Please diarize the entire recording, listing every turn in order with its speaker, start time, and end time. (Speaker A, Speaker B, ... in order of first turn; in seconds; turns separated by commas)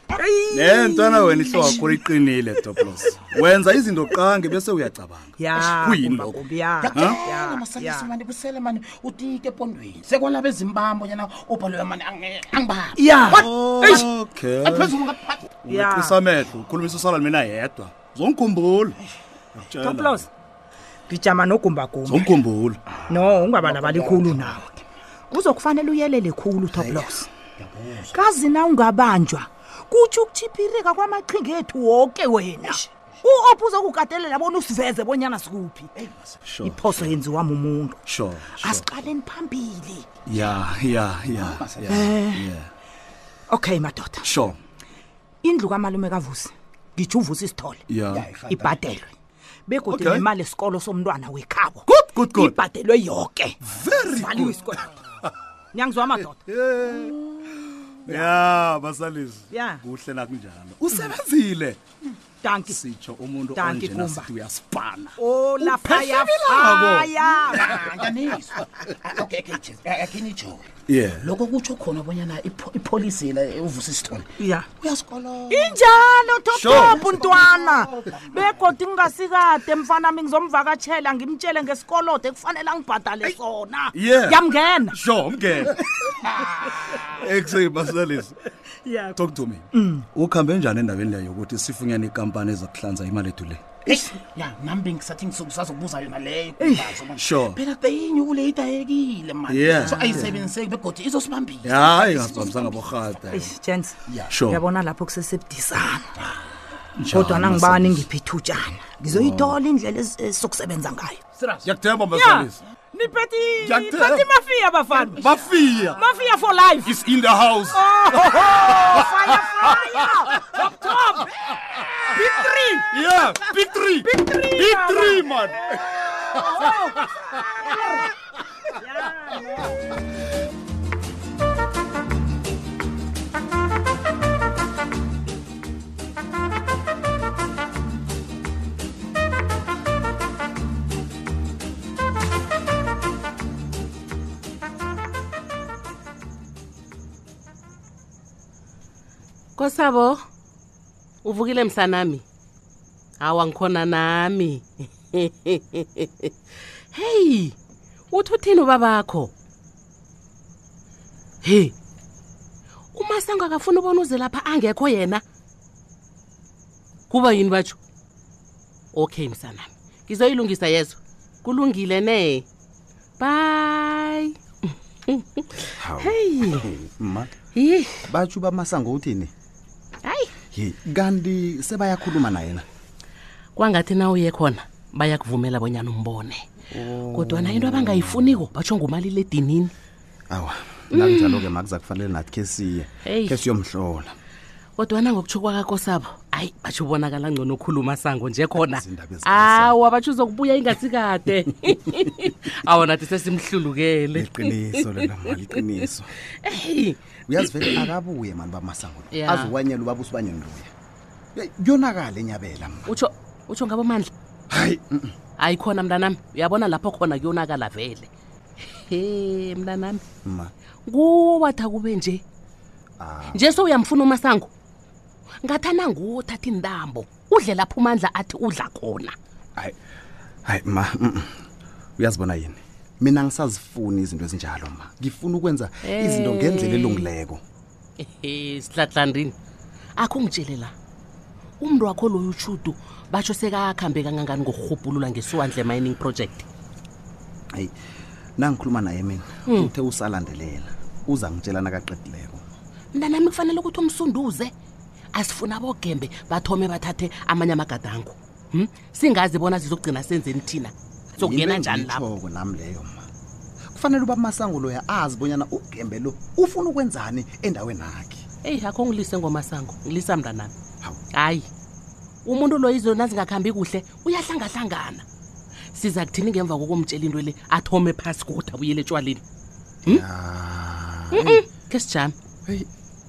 Speaker A: 0.1-3.4, Speaker B: 0.5-7.3, Speaker A: 5.4-8.2, Speaker C: 6.8-13.0, Speaker A: 12.9-14.1, Speaker B: 13.3-19.0, Speaker C: 14.7-15.5, Speaker A: 15.7-16.2, Speaker B: 19.6-20.2, Speaker A: 19.7-20.3, Speaker A: 21.1-22.4, Speaker B: 22.1-23.0, Speaker A: 23.1-24.6, Speaker A: 25.3-27.3, Speaker A: 28.1-35.9, Speaker B: 36.5-37.2, Speaker A: 36.6-38.0, Speaker B: 38.1-38.9, Speaker A: 38.6-40.0, Speaker B: 40.3-42.7, Speaker D: 41.4-41.8, Speaker A: 41.9-42.5, Speaker A: 43.5-44.3, Speaker B: 44.2-44.6, Speaker A: 45.4-47.8, Speaker B: 47.9-48.3, Speaker D: 48.1-48.6, Speaker A: 48.5-49.0, Speaker A: 49.7-54.9, Speaker B: 49.9-50.3, Speaker B: 51.9-52.6, Speaker B: 53.7-54.8, Speaker A: 55.7-56.4, Speaker B: 56.2-61.8, Speaker A: 58.1-58.4, Speaker A: 59.5-59.8, Speaker A: 60.9-61.1, Speaker A: 62.4-62.8, Speaker B: 62.6-67.2, Speaker A: 63.5-64.3, Speaker A: 65.2-67.8, Speaker C: 67.6-70.7, Speaker B: 67.7-68.1, Speaker B: 70.9-71.3, Speaker C: 71.2-74.3, Speaker A: 74.4-74.7, Speaker C: 74.8-75.8, Speaker A: 75.5-85.0, Speaker B: 76.5-77.1, Speaker C: 77.1-78.3, Speaker B: 83.9-86.0, Speaker B: 87.0-88.4, Speaker A: 88.9-89.2, Speaker B: 89.2-93.6, Speaker A: 89.7-90.0, Speaker C: 94.2-102.7, Speaker A: 96.6-97.0, Speaker B: 97.1-97.6, Speaker B: 99.5-100.2, Speaker A: 99.8-100.4, Speaker B: 101.6-103.6, Speaker A: 103.3-106.1, Speaker B: 104.3-104.6, Speaker B: 107.0-108.1, Speaker A: 107.1-111.2, Speaker B: 109.1-109.6, Speaker B: 111.5-112.6, Speaker A: 112.1-115.3, Speaker B: 113.6-114.4, Speaker B: 115.0-116.1, Speaker A: 115.8-117.0, Speaker B: 116.8-126.9, Speaker A: 117.7-121.3, Speaker A: 122.1-125.6, Speaker A: 126.1-127.0, Speaker A: 128.8-129.8, Speaker E: 149.6-150.2, Speaker E: 151.2-152.2, Speaker E: 153.2-156.3, Speaker E: 156.9-157.6, Speaker E: 158.1-159.3, Speaker E: 161.4-161.7, Speaker E: 162.9-165.2, Speaker E: 167.1-167.8, Speaker E: 168.9-172.5, Speaker E: 173.2-174.3, Speaker D: 175.8-177.3, Speaker E: 176.0-176.7, Speaker E: 177.6-177.9, Speaker D: 178.1-179.3, Speaker E: 180.1-180.3, Speaker D: 180.5-182.7, Speaker E: 183.6-186.4, Speaker D: 186.7-188.4, Speaker E: 187.1-189.7, Speaker D: 190.3-194.2, Speaker E: 190.9-191.4, Speaker E: 193.1-193.4, Speaker E: 194.8-205.6, Speaker D: 198.6-199.8, Speaker D: 204.1-206.1, Speaker E: 206.4-207.0, Speaker D: 207.3-210.7, Speaker E: 207.6-207.9, Speaker E: 209.1-209.5, Speaker D: 211.4-212.9, Speaker E: 212.9-214.1, Speaker D: 214.5-215.1, Speaker E: 215.4-218.1, Speaker E: 218.9-220.0, Speaker D: 220.2-220.5, Speaker E: 220.9-222.2, Speaker D: 223.0-223.6, Speaker E: 223.3-224.5, Speaker E: 225.4-229.2, Speaker D: 230.5-231.5, Speaker D: 232.0-237.4, Speaker E: 235.9-237.1, Speaker E: 238.0-239.3, Speaker E: 240.0-240.7, Speaker E: 241.6-246.5, Speaker D: 248.4-252.4, Speaker E: 252.9-254.5, Speaker E: 255.2-262.1, Speaker D: 261.2-263.1, Speaker D: 263.7-268.2, Speaker E: 268.4-270.5, Speaker E: 271.1-271.5, Speaker E: 272.2-275.0, Speaker E: 275.7-279.2, Speaker D: 279.9-281.4, Speaker E: 281.2-282.1